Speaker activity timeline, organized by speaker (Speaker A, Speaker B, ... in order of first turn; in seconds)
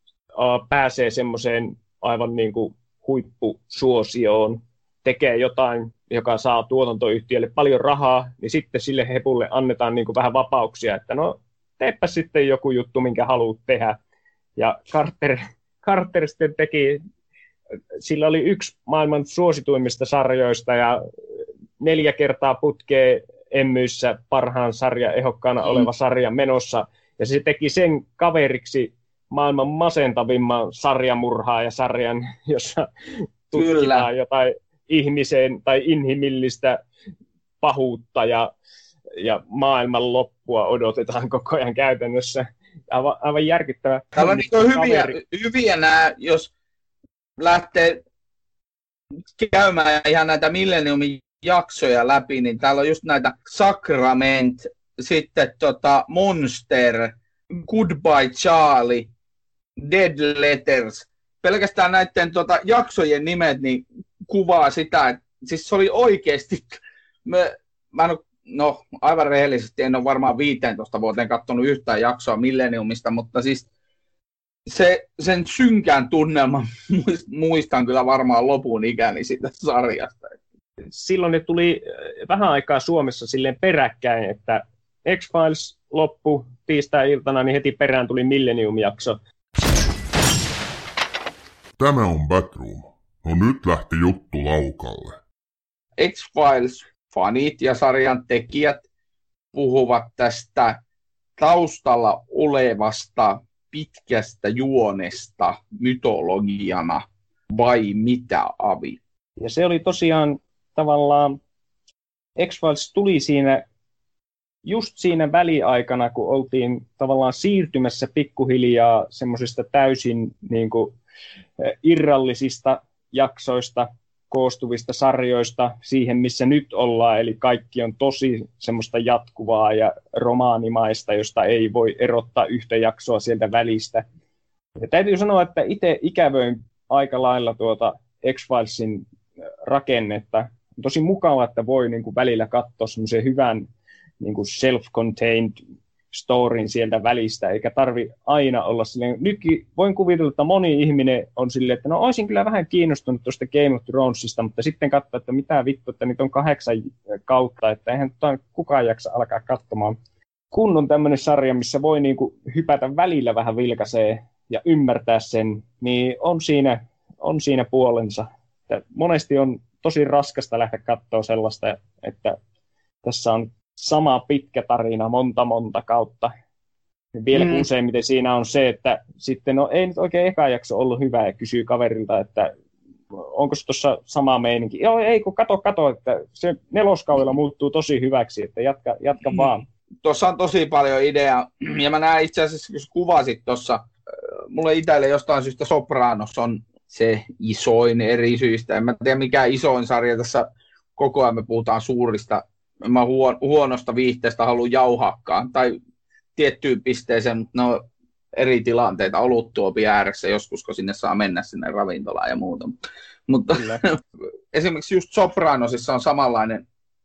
Speaker A: 0.4-14.0, 14.6-17.0, 18.0-21.0, 21.8-32.9, 33.5-36.8, 37.6-38.5, 39.2-45.2, 80.9-89.2, 109.4-111.4, 112.4-113.6, 114.7-121.0, 121.6-134.0, 134.8-139.0, 139.6-143.7, 144.2-145.6, 146.1-160.0, 160.5-172.4, 173.0-176.3, 177.2-182.5, 183.1-189.7
Speaker B: 33.5-34.1, 44.2-46.5, 47.4-48.0, 49.4-59.1, 59.8-73.7, 74.7-80.4, 96.0-98.8, 99.5-100.8, 101.4-109.0, 177.3-177.6, 190.0-193.9, 194.5-205.8, 206.4-207.8, 208.3-212.8, 213.3-214.0, 214.5-216.7
Speaker C: 91.8-95.2